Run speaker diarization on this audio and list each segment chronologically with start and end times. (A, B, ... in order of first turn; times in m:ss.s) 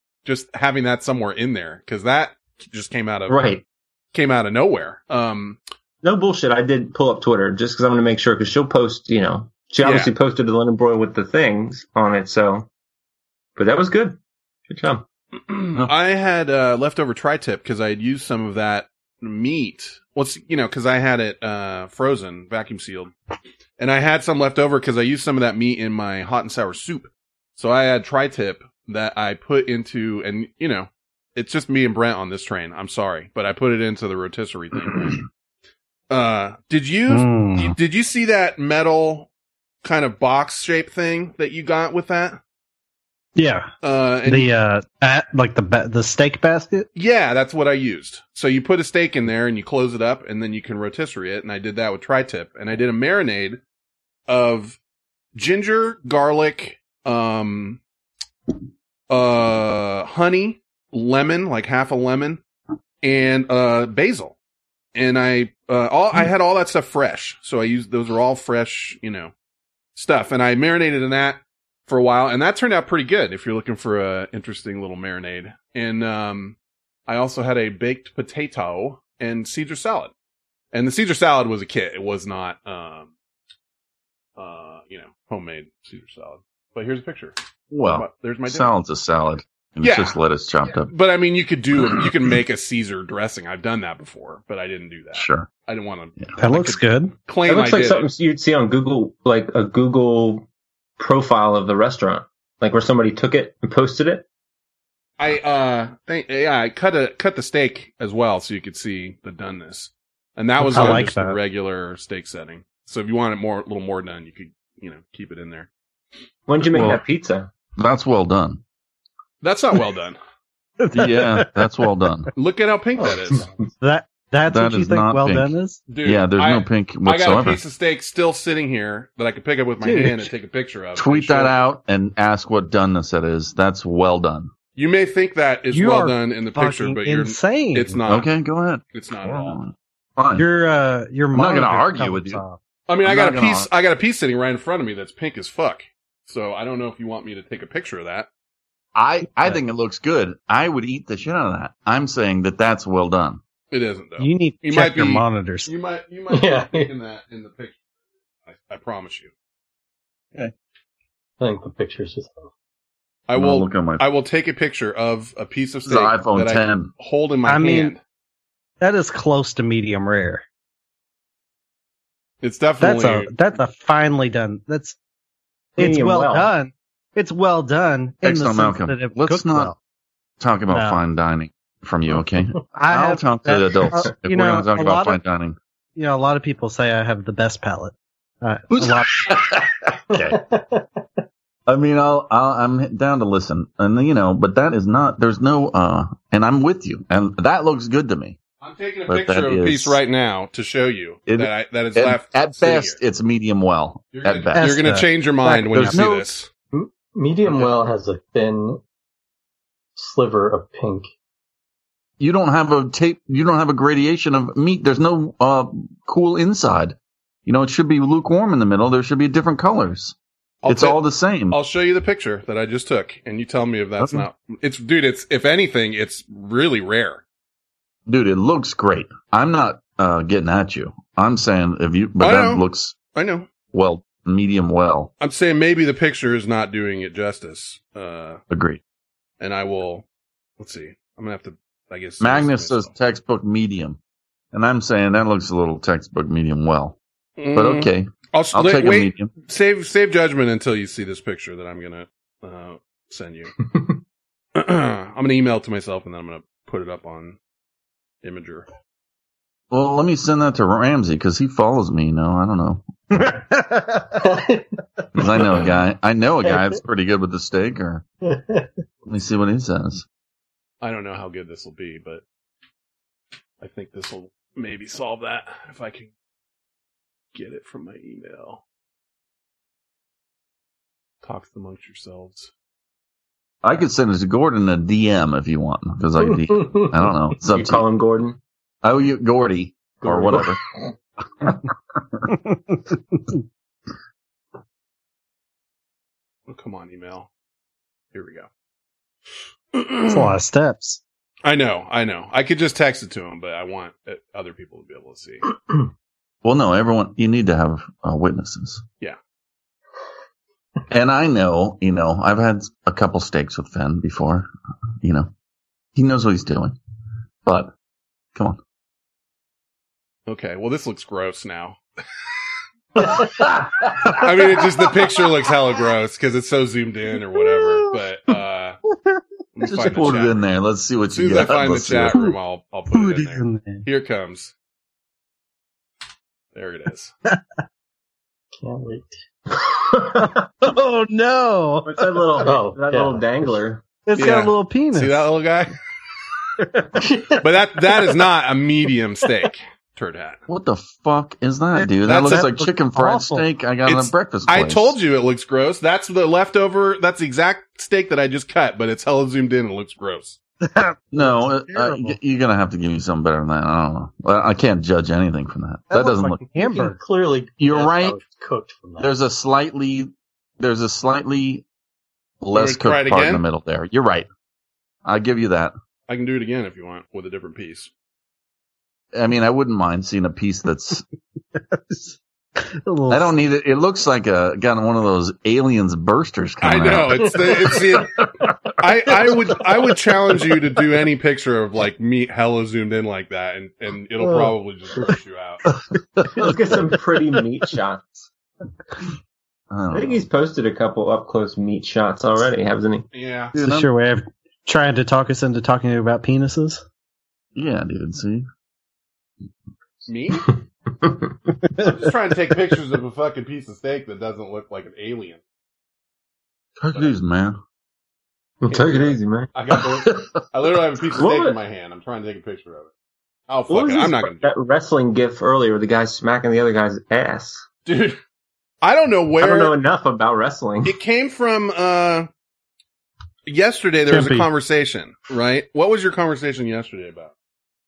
0:00.2-0:03.4 A
0:03.3-0:03.6 B
0:04.1-0:05.6 A
0:06.0-0:12.7 B
0:09.8-0:10.1 A
0:13.6-0:14.2 B
0:14.7-0:15.0 B
0:15.5-0:23.1 A
0:23.8-0:35.2 A
0:36.1-0:39.3 A
0:37.1-0:37.7 C
0:39.8-0:42.4 A
0:43.4-0:43.7 C
0:43.8-0:44.5 A
0:44.2-0:46.9 C
0:47.0-0:53.6 A
0:54.3-0:54.8 A
0:55.4-0:57.8 A
0:59.1-1:02.4 A
1:03.0-1:04.4 A
1:04.9-1:09.3 A
1:10.0-1:16.6 A
1:17.1-1:20.1 A
1:20.7-1:23.1 A
1:24.4-1:28.7 A
1:27.7-1:30.9 D
1:29.8-1:30.2 A
1:30.9-1:38.1 A
1:31.8-1:32.1 D
1:35.1-1:35.5 D
1:36.4-1:37.1 C
1:37.4-1:40.4 B
1:41.0-1:44.2 B
1:45.2-1:55.7 A
1:50.6-1:51.4 C
1:56.5-1:57.5 B
1:56.7-1:57.0 D
1:57.8-1:58.6 D
1:59.4-2:00.2 A
2:00.8-2:01.5 C
2:00.9-2:02.3 D
2:02.3-2:03.4 A
2:03.8-2:05.8 C
2:04.5-2:07.6 D
2:05.9-2:11.6 A
2:09.8-2:10.3 C
2:11.0-2:14.5 D
2:14.8-2:18.3 A
2:15.7-2:18.0 C
2:18.1-2:20.4 D
2:18.9-2:19.6 A
2:20.4-2:22.6 C
2:21.3-2:22.4 D
2:22.9-2:28.3 A
2:23.0-2:23.7 D
2:29.0-2:33.4 D
2:33.7-2:37.8 A
2:34.2-2:35.7 C
2:36.3-2:36.9 E
2:38.4-2:39.3 A
2:41.4-2:42.5 E
2:43.3-2:48.0 A
2:43.4-2:44.0 D
2:45.8-2:46.9 D
2:47.4-2:48.0 C
2:48.8-2:50.4 C
2:52.4-2:53.3 A
2:52.8-2:55.0 C
2:55.8-2:56.5 B
2:55.8-2:59.8 C
2:58.2-2:59.7 D
3:00.4-3:05.6 D
3:00.7-3:01.0 C
3:02.7-3:05.2 C
3:06.0-3:09.3 C
3:08.7-3:10.4 D
3:10.1-3:11.0 E
3:11.7-3:18.4 D
3:18.6-3:23.0 A
3:19.1-3:20.0 D
3:21.3-3:24.8 D
3:24.1-3:26.5 A
3:24.6-3:26.0 C
3:25.7-3:26.3 D
3:26.7-3:28.8 E
3:30.0-3:31.1 E
3:32.2-3:40.2 D
3:40.6-3:41.0 A
3:40.7-3:41.6 D
3:41.5-3:47.2 A
3:48.1-3:53.0 D
3:52.2-3:52.6 A
3:53.1-3:53.5 A
3:53.7-3:55.1 D
3:55.2-3:58.4 A
3:58.5-3:58.8 D
3:59.4-4:00.0 A
4:00.6-4:02.9 A
4:02.2-4:04.0 D
4:04.5-4:07.0 D
4:07.4-4:13.6 A
4:07.5-4:09.3 D
4:14.6-4:17.4 A
4:18.2-4:18.7 A
4:19.7-4:23.4 D
4:23.5-4:24.0 C
4:24.2-4:24.7 E
4:25.1-4:28.0 D
4:28.2-4:28.7 E
4:29.0-4:30.0 D
4:30.8-4:32.2 A
4:33.6-4:36.1 A
4:37.3-4:38.6 A
4:41.2-4:42.5 A
4:43.6-4:47.8 D
4:46.5-4:46.9 E
4:47.5-4:48.4 B
4:48.8-4:50.6 D
4:50.0-4:50.4 E
4:56.5-4:57.3 A
4:58.1-4:58.5 A
4:59.7-5:00.3 A
5:00.1-5:01.0 C
5:01.4-5:05.5 A
5:06.4-5:08.8 D
5:10.9-5:14.5 D
5:15.0-5:15.3 D
5:16.0-5:16.8 D
5:17.4-5:17.7 D
5:18.3-5:18.6 D
5:20.3-5:21.8 A
5:23.0-5:24.3 D
5:24.2-5:28.8 A
5:29.6-5:30.4 A
5:29.6-5:32.3 D
5:31.1-5:34.5 A
5:32.9-5:33.8 C
5:36.5-5:37.1 A
5:38.6-5:39.2 E
5:40.6-5:42.2 C
5:41.9-5:43.8 B
5:42.4-5:43.3 E
5:44.0-5:45.2 C
5:44.2-5:45.8 A
5:47.0-5:47.4 E
5:47.4-5:50.4 A
5:50.5-5:55.0 D
5:51.8-5:53.5 C
5:52.0-5:52.4 A
5:53.9-6:00.4 A
6:00.6-6:02.2 C
6:01.1-6:06.4 D
6:05.9-6:07.0 C
6:06.6-6:09.1 E
6:07.6-6:08.2 D
6:09.0-6:11.6 D
6:12.4-6:14.3 D
6:12.5-6:13.4 A
6:15.0-6:15.7 D
6:16.1-6:17.9 A
6:19.1-6:21.0 D
6:21.7-6:22.0 C
6:22.8-6:23.3 C
6:23.1-6:28.2 D
6:26.6-6:28.2 A
6:28.8-6:35.6 A
6:29.1-6:29.4 D
6:36.3-6:38.3 B
6:39.7-6:40.2 D
6:39.9-6:43.0 B
6:43.1-6:43.5 A
6:43.5-6:43.9 D
6:43.6-6:46.8 C
6:47.6-6:48.4 D
6:50.1-6:50.5 A
6:51.8-6:55.4 A
6:56.8-6:57.6 D
6:58.6-6:59.5 B
6:58.7-7:02.9 A
7:01.2-7:01.6 B
7:03.5-7:04.5 A
7:03.7-7:07.6 B
7:07.9-7:08.2 A
7:08.8-7:09.8 A
7:09.4-7:11.0 B
7:10.8-7:12.3 A
7:13.5-7:17.3 A
7:14.1-7:14.4 E
7:14.1-7:14.4 C